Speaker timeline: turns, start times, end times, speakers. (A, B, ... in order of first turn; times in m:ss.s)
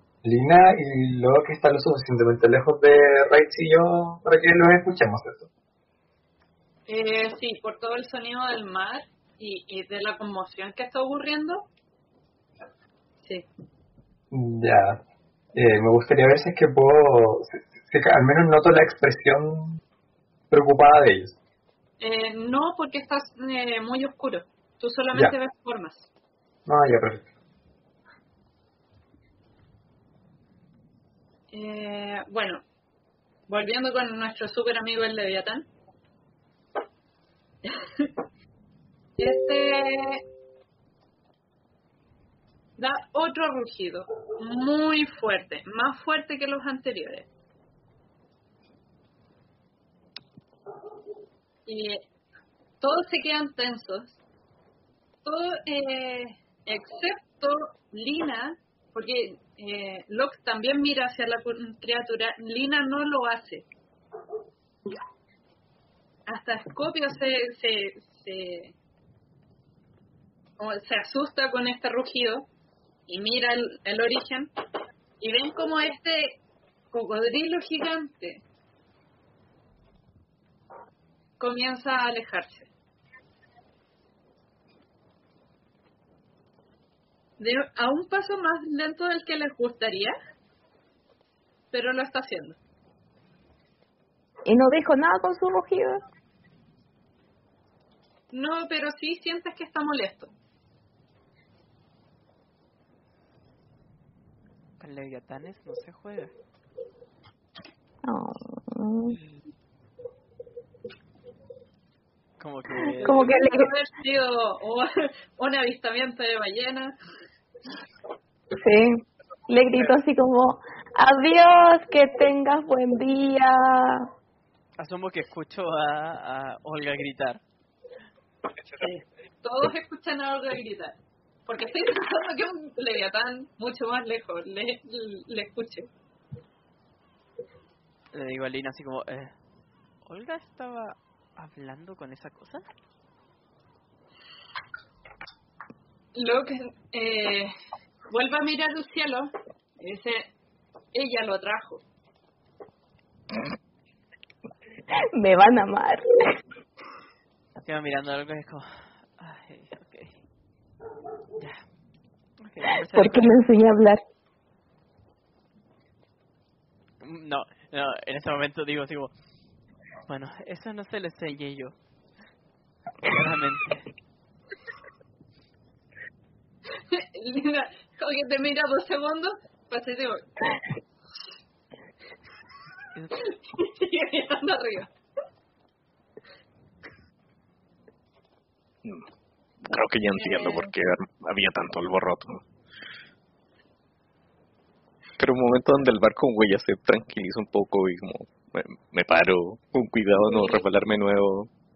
0:00.2-0:05.5 A
0:06.9-0:11.7 B
0:14.3-0:15.0 A
0:15.5-0:19.8 A
0:20.5-0:21.4 A
0:22.0-0:26.1 B
0:26.6-0:27.3 A
0:31.5-0:32.6 B
0:33.5-0:35.6 B
0:37.6-0:38.1 B
0:39.2-0:40.2 B
0:42.8-0:47.3 B
0:51.7-0:52.0 B
0:52.8-0:54.2 B
0:55.2-1:03.6 B
1:06.3-1:08.7 B
1:10.6-1:12.5 B
1:13.1-1:14.5 B
1:15.2-1:16.4 B
1:16.9-1:18.4 B
1:21.4-1:22.7 B
1:27.4-1:30.2 B
1:31.7-1:32.6 B
1:34.4-1:36.0 C
1:38.3-1:40.3 B
1:44.8-1:46.3 D
1:48.0-1:49.2 C
1:52.4-1:53.3 D
1:53.0-1:53.7 C
1:53.0-1:57.0 B
1:58.6-2:04.1 C
2:04.8-2:07.4 D
2:08.8-2:15.9 B
2:18.1-2:19.3 D
2:20.0-2:22.6 D
2:26.2-2:27.5 B
2:28.1-2:30.3 B
2:30.9-2:31.8 B
2:35.2-2:36.1 C
2:37.6-2:40.2 D
2:42.4-2:43.3 D
2:42.9-2:44.0 C
2:47.0-2:49.1 D
2:50.1-2:51.7 D
2:53.0-2:53.9 D
2:56.8-3:00.3 B
3:03.2-3:04.9 B
3:09.6-3:12.4 E
3:10.2-3:10.7 B
3:15.2-3:21.5 E
3:20.3-3:20.7 B